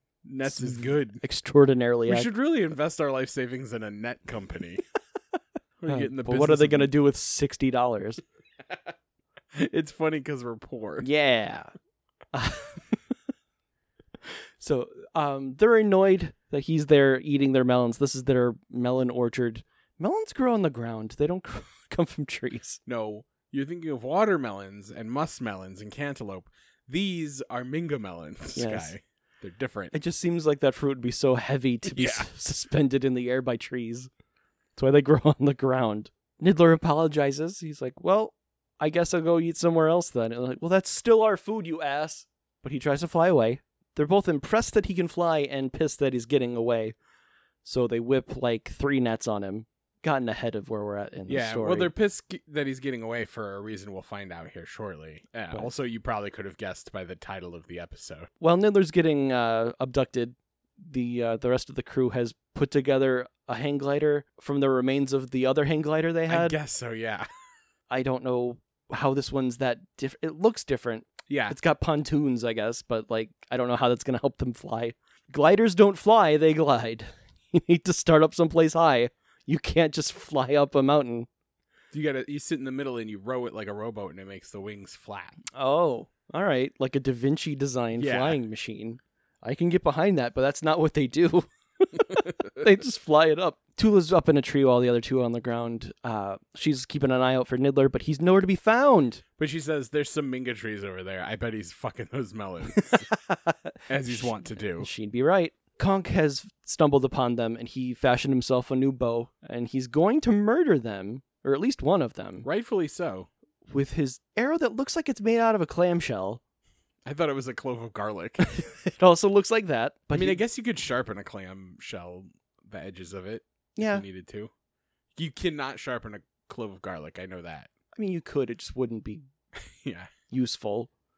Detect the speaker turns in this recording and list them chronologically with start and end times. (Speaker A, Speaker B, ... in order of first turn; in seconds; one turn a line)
Speaker A: 0.2-1.2
Speaker B: 0.4-2.3
Speaker A: 2.1-4.8
Speaker A: 5.8-6.9
Speaker B: 5.9-8.2
Speaker A: 9.5-11.1
Speaker B: 11.0-11.7
Speaker B: 12.3-13.0
Speaker B: 14.6-22.8
Speaker A: 22.9-29.9
Speaker B: 28.5-28.9
Speaker B: 29.9-34.1
Speaker A: 31.9-32.3
Speaker B: 34.8-46.9
Speaker B: 47.6-51.9
Speaker A: 51.3-58.3
Speaker B: 58.4-66.5
Speaker A: 66.3-67.3
Speaker B: 67.9-81.3
Speaker A: 71.3-71.5
Speaker A: 81.9-85.4
Speaker B: 85.5-99.2
Speaker A: 88.0-88.4
Speaker A: 99.4-103.1
Speaker B: 102.7-112.5
Speaker A: 103.9-104.9
Speaker A: 112.4-113.3
Speaker B: 113.7-116.4
Speaker A: 117.0-118.5
Speaker B: 118.5-120.4
Speaker A: 120.1-124.5
Speaker B: 123.8-124.0
Speaker A: 125.2-127.7
Speaker B: 127.9-129.2
Speaker A: 129.7-130.1
Speaker B: 130.3-130.9